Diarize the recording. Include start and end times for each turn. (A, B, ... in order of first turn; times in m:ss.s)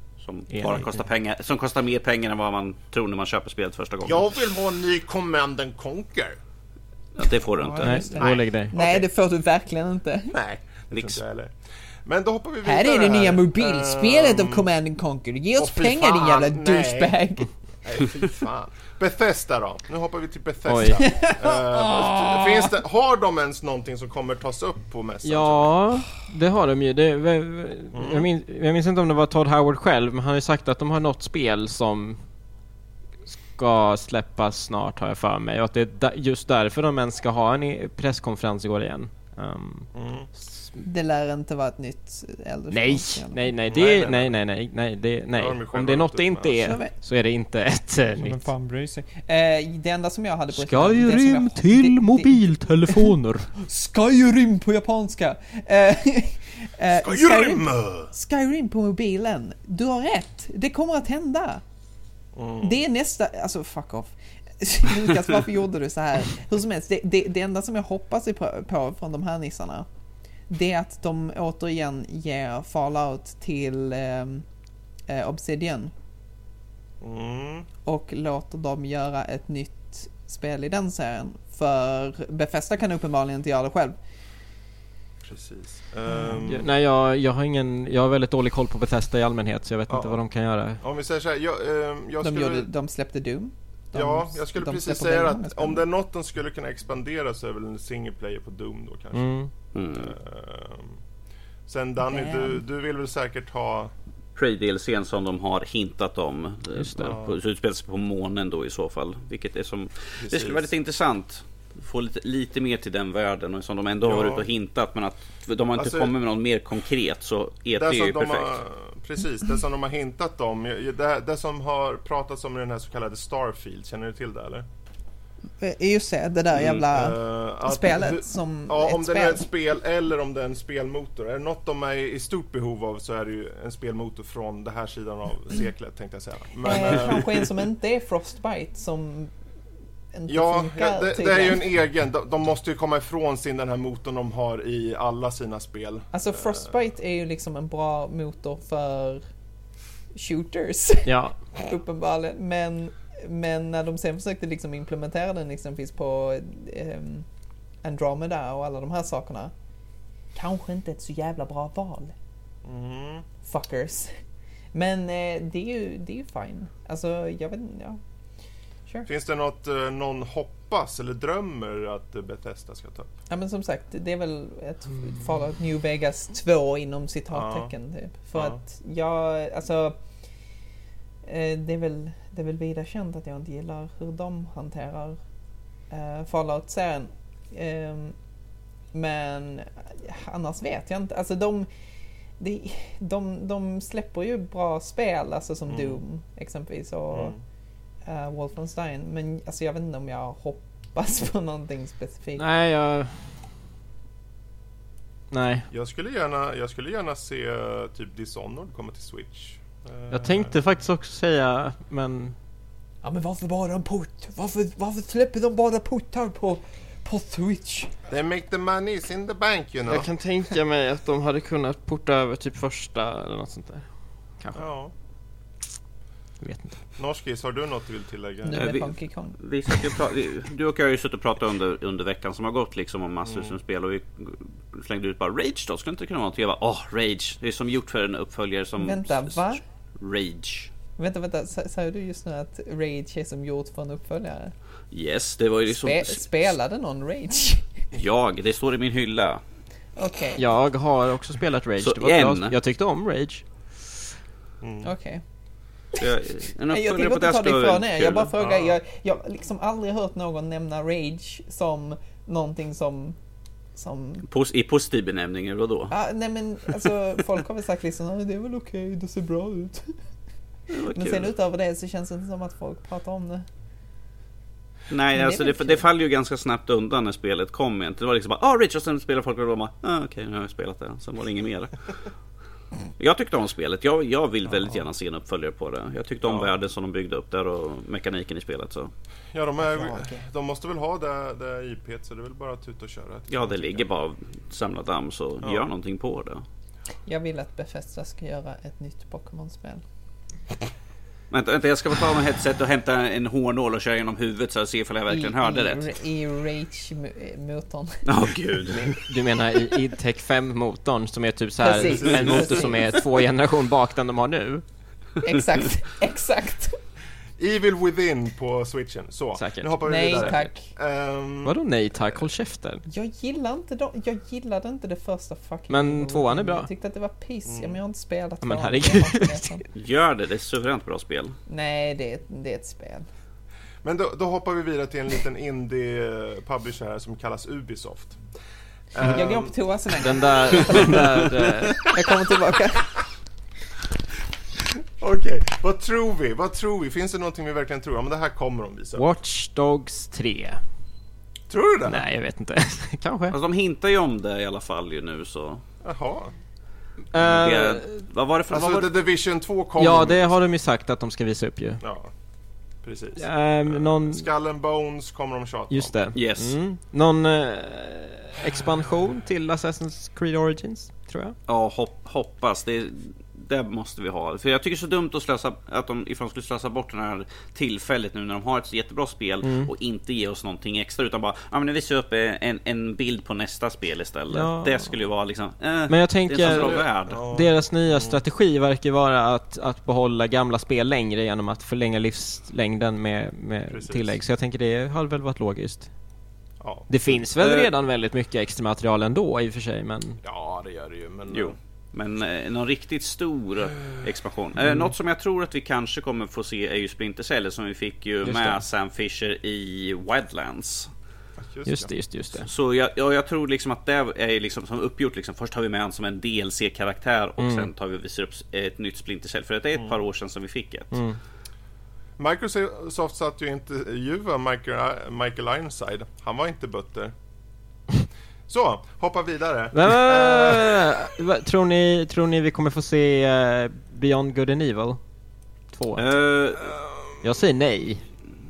0:00.2-0:04.3 A
0:00.5-0:01.0 B
0:04.0-0:06.4 C
0:07.2-0:08.4 A
0:07.6-0:09.1 C
0:07.8-0:10.4 D
0:07.8-0:08.7 B
0:10.3-0:11.5 C
0:10.9-0:11.2 A
0:12.0-0:14.7 C
0:12.6-0:17.5 D
0:15.6-0:17.2 C
0:17.8-0:25.8 C
0:20.7-0:21.0 B
0:21.0-0:22.7 D
0:25.2-0:32.2 B
0:27.9-0:28.3 C
0:33.5-0:39.9 B
0:39.9-0:40.3 C
0:40.8-0:43.5 D
0:42.7-0:48.5 B
0:43.7-0:44.4 C
0:45.4-0:46.8 C
0:46.6-0:46.9 D
0:48.2-1:01.6 D
0:50.5-0:53.5 B
0:56.9-0:58.1 C
1:02.4-1:02.8 C
1:02.6-1:09.9 D
1:10.5-1:14.4 D
1:15.1-1:15.9 D
1:17.0-1:17.7 C
1:17.9-1:24.0 D
1:25.2-1:26.7 C
1:26.1-1:26.4 D
1:26.4-1:30.8 B
1:29.9-1:30.2 C
1:30.8-1:32.7 C
1:32.2-1:35.9 D
1:33.9-1:39.4 C
1:39.1-1:39.5 B
1:39.7-1:40.1 A
1:39.9-1:41.0 C
1:41.7-1:43.9 C
1:42.0-1:42.6 D
1:44.4-1:58.5 A
1:46.8-1:47.2 B
1:47.0-1:47.4 C
1:50.2-1:50.7 C
1:54.0-1:54.5 C
1:55.8-1:56.1 C
1:57.8-2:04.7 C
2:05.6-2:09.4 D
2:06.6-2:17.5 C
2:16.6-2:19.3 D
2:20.1-2:21.6 D
2:20.3-2:26.6 C
2:26.1-2:29.2 D
2:30.1-2:37.3 D
2:31.1-2:31.4 B
2:37.8-2:39.5 D
2:40.4-2:42.2 D
2:42.6-2:43.3 C
2:43.4-2:44.2 D
2:44.7-2:48.0 D
2:49.1-2:53.1 C
2:53.3-3:00.0 D
2:57.3-2:57.7 C
2:58.3-2:58.6 C
3:01.2-3:05.2 D
3:05.9-3:08.2 D
3:08.9-3:11.7 D
3:12.4-3:17.4 D
3:15.7-3:16.0 C
3:17.1-3:17.4 C
3:18.0-3:22.4 D
3:22.4-3:23.5 B
3:25.3-3:25.7 B
3:25.7-3:30.6 C
3:30.1-3:32.4 B
3:33.0-3:37.9 D
3:38.1-3:40.1 C
3:39.9-3:44.6 B
3:44.6-3:44.9 C
3:46.4-3:46.8 B
3:47.0-3:48.8 C
3:48.4-3:49.4 D
3:48.5-4:00.7 A
3:53.2-3:53.6 C
3:58.8-3:59.6 D
4:01.0-4:04.5 D
4:04.9-4:06.5 A
4:05.7-4:07.8 D
4:07.9-4:09.4 A
4:10.0-4:10.4 D
4:10.4-4:13.4 B
4:11.8-4:12.6 A
4:14.6-4:14.9 C
4:14.8-4:15.2 D
4:16.0-4:18.3 A
4:16.7-4:23.2 D
4:18.4-4:18.8 C
4:23.8-4:24.2 D
4:24.3-4:25.9 A
4:25.9-4:30.0 D
4:30.7-4:31.3 A
4:30.8-4:33.5 D
4:34.9-4:42.0 A
4:35.1-4:35.8 D
4:43.0-4:48.9 A
4:44.5-4:44.8 C
4:46.3-4:46.5 C
4:49.3-4:53.8 C
4:49.6-4:50.2 D
4:53.3-4:56.4 A
4:57.1-4:59.8 D
5:01.3-5:06.0 A
5:05.1-5:08.1 D
5:08.1-5:08.9 A
5:08.7-5:14.6 B
5:11.6-5:13.2 D
5:11.8-5:13.0 C
5:15.2-5:16.8 D
5:17.4-5:21.6 C
5:19.4-5:20.4 B
5:19.8-5:20.7 D
5:21.4-5:22.8 B
5:22.9-5:29.7 D
5:25.7-5:26.7 B
5:27.5-5:27.8 C
5:28.4-5:29.6 B
5:29.7-5:31.4 A
5:31.5-5:33.1 D
5:33.8-5:38.2 C
5:38.9-5:39.6 C
5:39.0-5:41.3 D
5:40.0-5:41.9 B
5:40.5-5:41.0 C
5:41.8-5:42.9 D
5:45.0-5:49.0 C
5:49.0-5:50.6 B
5:51.5-5:52.0 C
5:51.9-5:53.4 B
5:53.3-5:55.6 A
5:55.8-5:56.3 C
5:57.1-5:58.0 B
5:57.2-5:58.9 A
5:58.5-6:00.4 C
5:59.8-6:01.8 B
6:01.8-6:02.1 C
6:02.8-6:06.0 C
6:03.2-6:04.3 B
6:05.7-6:11.4 B
6:06.1-6:06.6 A
6:11.5-6:27.2 A
6:19.4-6:19.7 B
6:24.3-6:24.9 B
6:25.9-6:35.9 B
6:26.4-6:28.2 C
6:33.7-6:34.1 C
6:36.6-6:36.9 C
6:36.9-6:40.2 B
6:37.4-6:37.7 A
6:40.2-6:41.6 C
6:41.3-6:50.9 A
6:48.2-6:48.6 B
6:51.4-6:51.9 C
6:51.7-6:52.5 B
6:52.4-7:00.9 A
6:57.4-6:57.7 B
7:00.9-7:01.2 B
7:02.2-7:07.1 C
7:08.5-7:11.0 C
7:09.7-7:15.0 B
7:15.7-7:16.0 B
7:16.0-7:16.8 A
7:16.6-7:17.2 C
7:17.2-7:18.0 B